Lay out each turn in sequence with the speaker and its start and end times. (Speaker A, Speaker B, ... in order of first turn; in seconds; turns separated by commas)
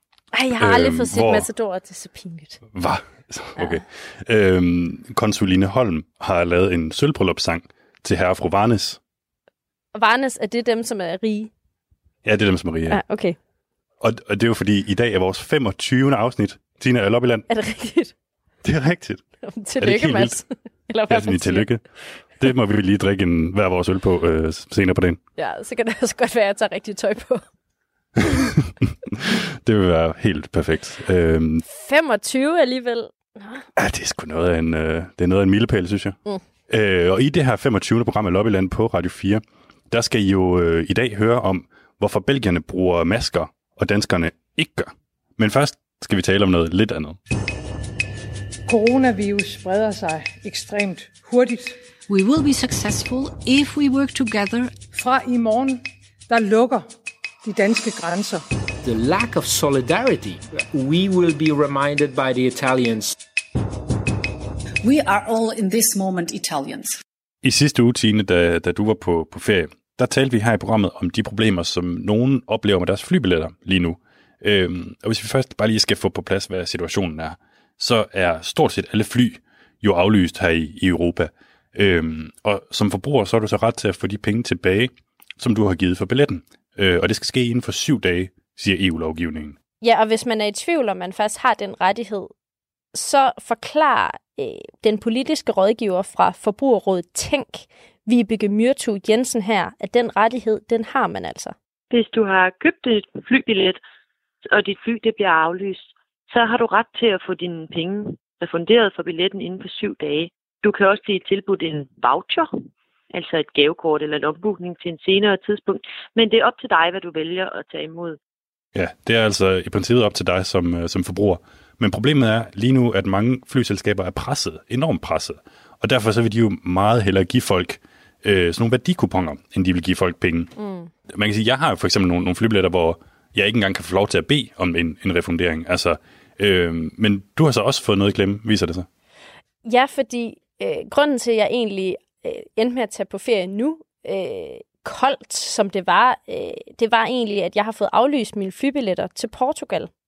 Speaker A: 0.3-2.6, Speaker B: 0.6-1.4, Speaker B: 2.7-9.0, Speaker A: 9.9-11.5, Speaker B: 12.2-13.0, Speaker A: 12.9-13.4, Speaker B: 14.0-17.5, Speaker A: 17.5-18.1, Speaker B: 18.6-19.2, Speaker A: 19.4-21.7, Speaker B: 19.8-20.4, Speaker B: 21.1-21.8, Speaker B: 22.4-25.2, Speaker A: 25.4-27.4, Speaker B: 28.2-31.6, Speaker A: 31.6-33.6, Speaker B: 33.8-36.2, Speaker B: 36.7-47.2, Speaker C: 48.7-51.8, Speaker D: 52.1-54.9, Speaker C: 54.9-56.9, Speaker C: 57.4-58.4, Speaker E: 58.8-63.1, Speaker F: 64.8-67.0, Speaker B: 67.4-89.5, Speaker A: 89.8-92.3, Speaker A: 92.9-101.5, Speaker G: 101.9-103.8, Speaker G: 104.5-112.5, Speaker G: 113.1-118.2, Speaker B: 118.7-130.5, Speaker A: 130.6-130.9, Speaker B: 131.1-138.9, Speaker A: 139.6-149.9